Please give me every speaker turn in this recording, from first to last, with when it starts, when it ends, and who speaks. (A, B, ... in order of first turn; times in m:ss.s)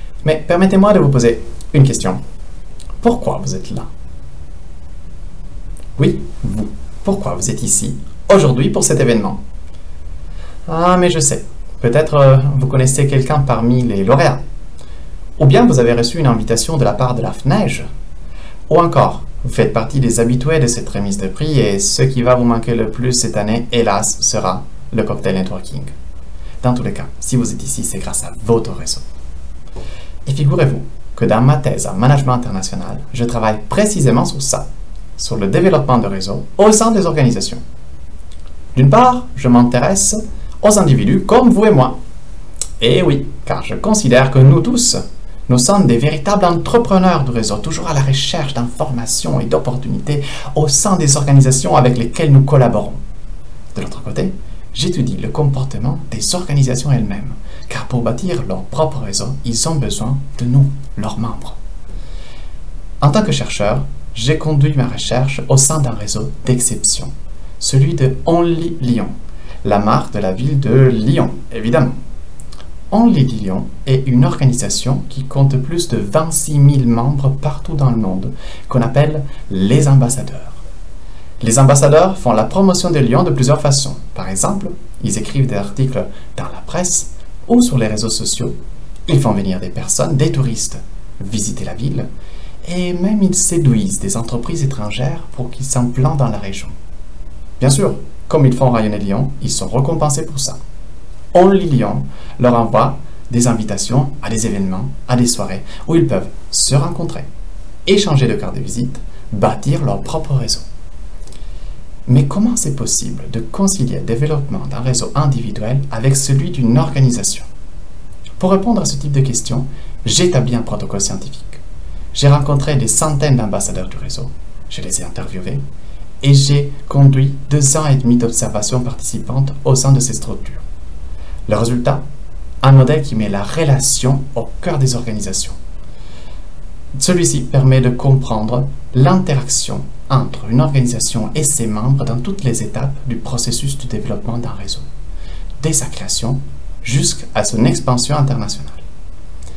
0:00.2-0:02.2 A
0:03.0-0:03.9 A
0:06.0-0:09.4 A
0:10.7-0:14.4 A
0:15.4-0:17.9 A
0:18.7-0:25.9 A
0:26.6-0:29.0 A
0:30.3-0:37.6 A
0:38.8-0:42.0 A
0:42.8-0:53.0 A
0:53.8-1:01.6 A
1:03.0-1:12.0 A
1:12.9-1:20.6 A
1:21.4-1:28.6 A
1:29.1-1:32.1 A
1:32.6-1:36.7 A
1:37.6-1:40.6 A
1:41.3-1:47.3 A
1:47.8-1:50.7 A
1:52.1-1:57.5 A
1:58.4-2:01.6 A
2:02.1-2:05.6 A
2:06.2-2:10.6 A
2:11.5-2:12.0 A
2:12.6-2:15.6 A
2:17.0-2:24.8 A
2:25.6-2:28.8 A